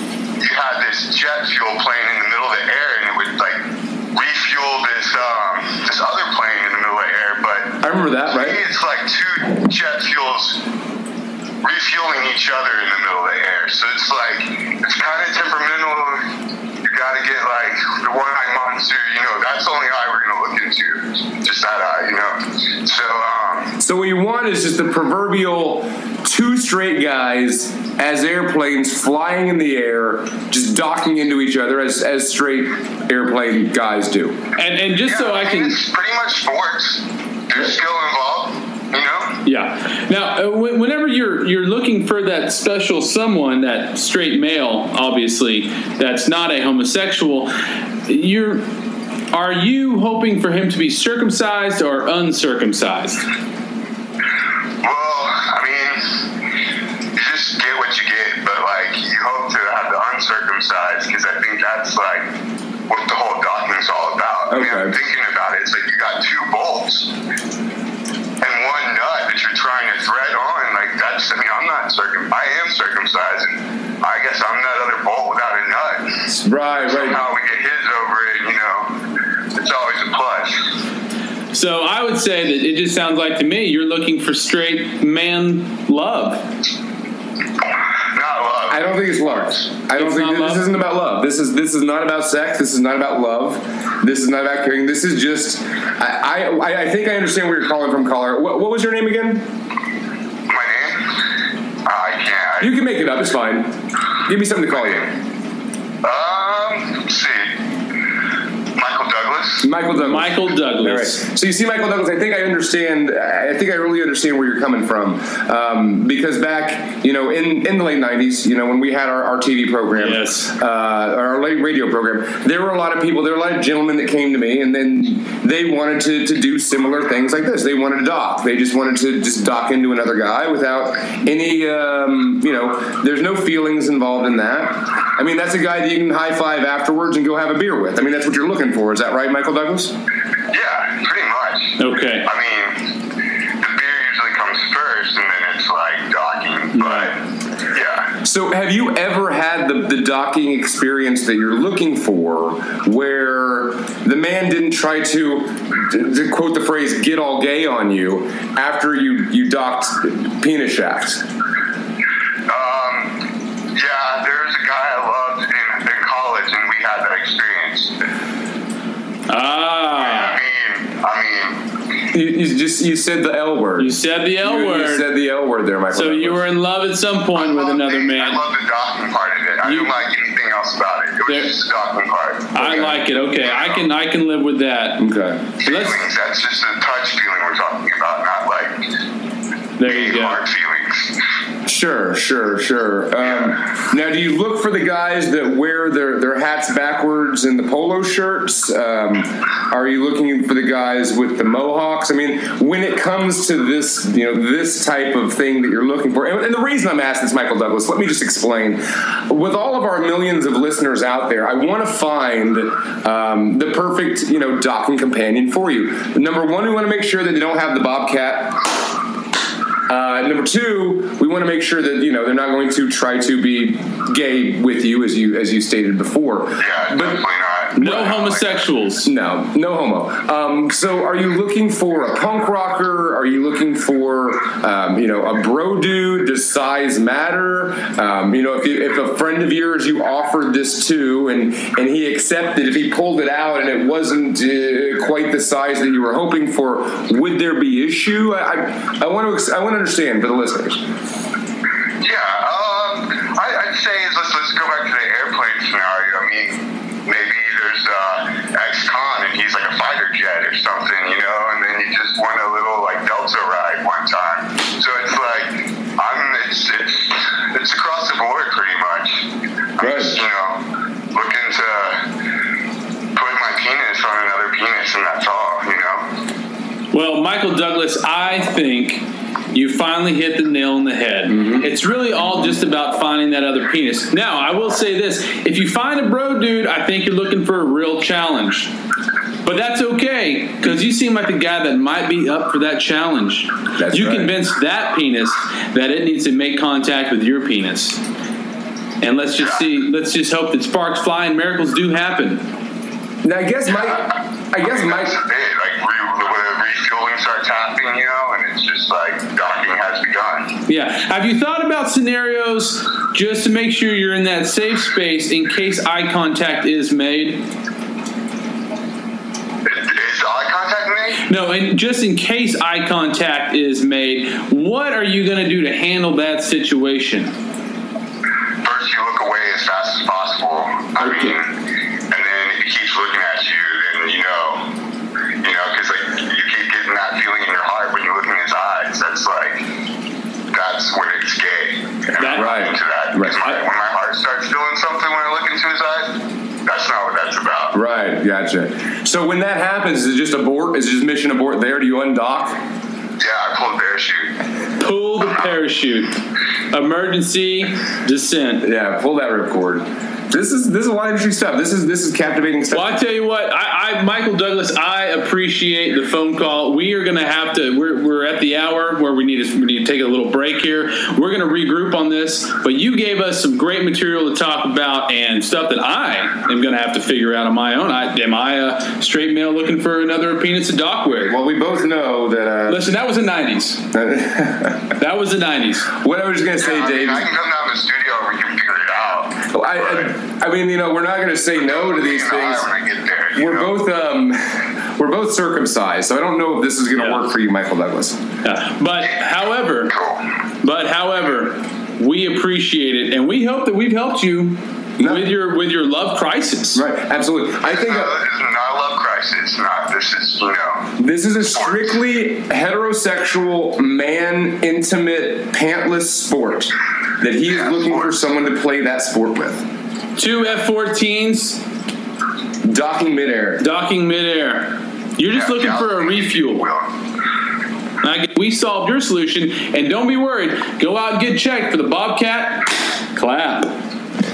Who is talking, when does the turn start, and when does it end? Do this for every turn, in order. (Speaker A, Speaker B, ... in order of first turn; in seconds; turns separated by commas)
Speaker A: 0.4-10.6, Speaker B: 7.8-8.6, Speaker A: 11.6-16.3, Speaker A: 16.8-23.8, Speaker B: 23.8-34.4, Speaker C: 34.6-35.8, Speaker A: 35.1-39.4, Speaker C: 39.5-47.5, Speaker C: 48.1-48.7, Speaker C: 49.3-53.2, Speaker A: 54.8-56.1, Speaker A: 57.1-62.3, Speaker A: 62.9-67.1, Speaker B: 64.5-65.0, Speaker A: 68.4-76.2, Speaker B: 76.3-77.2, Speaker A: 76.9-78.9, Speaker A: 79.5-80.7, Speaker C: 81.5-86.5, Speaker A: 88.1-88.9, Speaker B: 88.7-99.5, Speaker C: 90.0-90.7, Speaker A: 100.5-101.2, Speaker A: 101.8-102.7, Speaker B: 102.6-105.1, Speaker A: 106.0-107.6, Speaker A: 108.8-109.7, Speaker B: 109.6-139.9, Speaker C: 109.9-111.2, Speaker C: 120.0-120.5, Speaker A: 140.5-142.9, Speaker C: 141.8-142.3, Speaker A: 143.6-148.1, Speaker C: 146.8-147.1, Speaker B: 148.2-161.2, Speaker A: 162.5-163.2, Speaker A: 163.7-167.9, Speaker C: 169.3-170.4, Speaker A: 170.0-171.6, Speaker B: 172.1-176.5, Speaker C: 173.8-175.1, Speaker C: 175.9-178.4, Speaker A: 177.3-182.9, Speaker C: 179.6-179.9, Speaker C: 181.3-181.5, Speaker C: 182.5-185.1, Speaker A: 183.4-183.8, Speaker B: 185.0-185.4, Speaker A: 185.6-188.8, Speaker C: 185.6-186.0, Speaker C: 189.8-190.4, Speaker A: 189.8-191.2, Speaker B: 191.7-218.7, Speaker B: 219.9-227.2, Speaker A: 226.6-228.4, Speaker C: 227.8-229.1, Speaker B: 229.0-250.8, Speaker A: 252.0-272.1, Speaker B: 269.8-270.2, Speaker A: 273.1-276.1, Speaker C: 276.9-288.7, Speaker B: 281.3-281.7, Speaker C: 289.4-298.0, Speaker B: 293.8-294.3, Speaker C: 299.0-302.4, Speaker B: 303.2-305.2, Speaker A: 304.6-310.6, Speaker C: 310.7-317.4, Speaker A: 319.7-321.2, Speaker C: 321.3-327.3, Speaker A: 328.6-331.5, Speaker C: 331.0-331.4, Speaker A: 332.1-334.7, Speaker A: 335.4-339.7, Speaker A: 340.5-347.8, Speaker C: 342.2-342.6, Speaker B: 342.3-343.4, Speaker B: 347.7-352.6, Speaker A: 353.2-354.3, Speaker C: 354.8-356.2, Speaker C: 356.7-358.6, Speaker B: 358.6-363.0, Speaker C: 362.7-381.4, Speaker B: 381.3-382.9, Speaker C: 382.7-383.8, Speaker B: 383.9-384.9, Speaker C: 385.0-385.9, Speaker B: 385.9-387.3, Speaker A: 386.6-390.1, Speaker B: 389.5-392.7, Speaker A: 391.6-393.7, Speaker B: 393.4-398.2, Speaker C: 397.0-397.2, Speaker C: 398.4-399.9, Speaker A: 399.9-400.2, Speaker C: 400.6-406.8, Speaker B: 405.0-405.3, Speaker B: 406.7-408.2, Speaker A: 407.7-410.9, Speaker B: 411.0-419.7, Speaker A: 411.5-411.9, Speaker A: 417.5-418.1, Speaker C: 420.2-421.6, Speaker B: 422.6-423.6, Speaker C: 423.6-426.7, Speaker A: 425.3-426.9, Speaker C: 428.0-433.8